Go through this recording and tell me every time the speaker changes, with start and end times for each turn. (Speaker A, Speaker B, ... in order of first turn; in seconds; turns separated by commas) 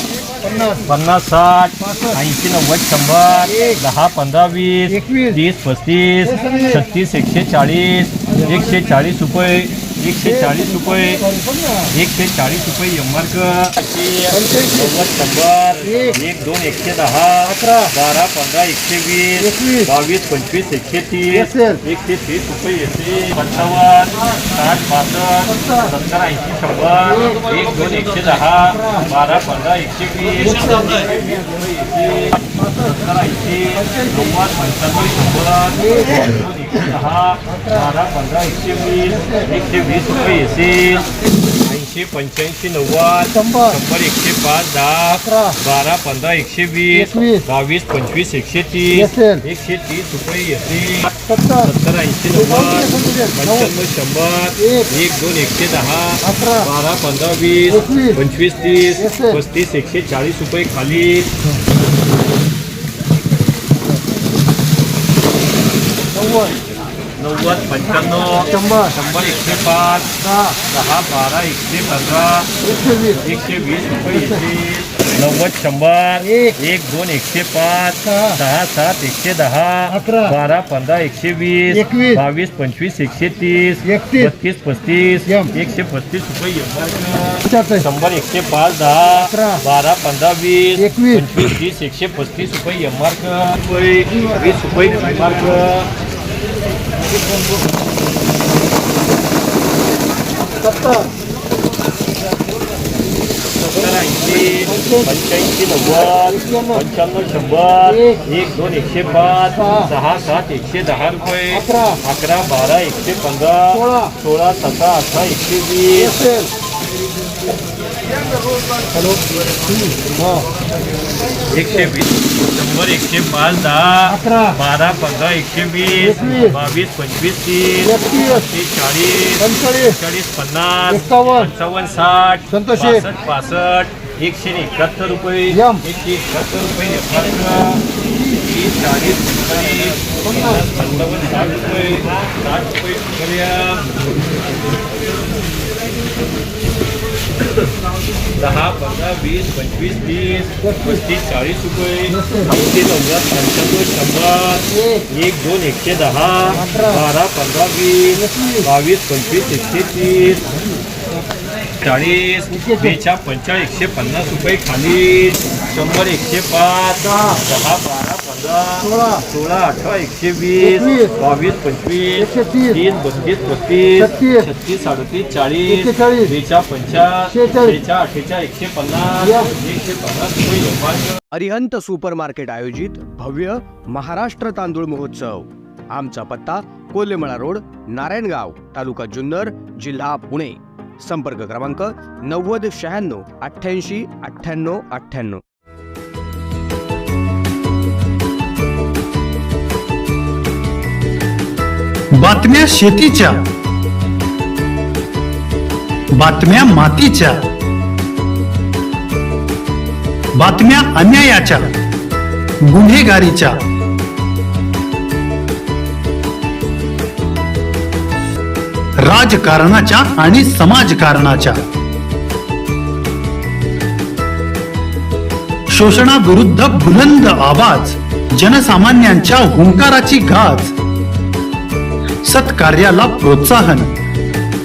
Speaker A: 0.4-0.9, Speaker B: 0.8-11.3, Speaker A: 1.9-2.1, Speaker A: 3.5-3.8, Speaker A: 4.9-5.4, Speaker A: 6.3-6.7, Speaker A: 10.4-11.9, Speaker B: 11.8-61.3, Speaker A: 14.4-14.9, Speaker A: 15.9-16.1, Speaker A: 17.5-17.9, Speaker A: 19.5-19.9, Speaker A: 21.4-21.8, Speaker A: 25.5-25.9, Speaker A: 27.1-27.4, Speaker A: 28.8-29.1, Speaker A: 30.6-31.3, Speaker A: 35.8-36.2, Speaker A: 39.1-39.5, Speaker A: 43.4-43.7, Speaker A: 45.2-45.6, Speaker A: 47.0-47.4, Speaker A: 49.0-49.4, Speaker A: 51.3-51.6, Speaker A: 52.5-53.7, Speaker A: 54.6-54.9, Speaker A: 56.3-56.7, Speaker A: 57.8-58.2, Speaker A: 59.0-59.4, Speaker A: 66.1-66.5, Speaker B: 67.2-72.5, Speaker A: 68.5-68.9, Speaker A: 72.6-73.2, Speaker B: 73.2-95.9, Speaker A: 80.0-80.3, Speaker A: 81.8-82.2, Speaker A: 83.9-84.2, Speaker A: 87.5-87.8, Speaker A: 89.3-89.6, Speaker A: 90.8-91.1, Speaker A: 100.6-101.1, Speaker B: 103.5-116.2, Speaker A: 104.6-105.0, Speaker A: 106.3-106.8, Speaker A: 107.9-108.2, Speaker A: 109.6-109.9, Speaker A: 111.6-112.0, Speaker A: 113.8-114.1, Speaker A: 116.0-116.5, Speaker A: 118.9-120.5, Speaker B: 121.5-144.0, Speaker A: 124.1-124.5, Speaker A: 126.1-126.5, Speaker A: 127.9-128.4, Speaker A: 129.4-129.9, Speaker A: 131.0-131.5, Speaker A: 132.5-133.0, Speaker A: 135.6-135.8, Speaker B: 148.3-160.5, Speaker A: 152.2-152.5, Speaker A: 156.6-157.0, Speaker A: 158.2-158.6, Speaker B: 161.8-181.2, Speaker A: 162.5-162.9, Speaker A: 168.9-169.2, Speaker A: 170.7-171.1, Speaker A: 172.3-172.7, Speaker A: 174.0-174.4, Speaker A: 175.8-176.3, Speaker A: 177.3-177.7, Speaker C: 181.3-195.4, Speaker D: 202.2-203.4, Speaker D: 206.2-207.5, Speaker D: 210.4-211.7, Speaker D: 212.7-213.6, Speaker D: 219.0-221.6, Speaker D: 225.7-230.7, Speaker D: 232.2-233.9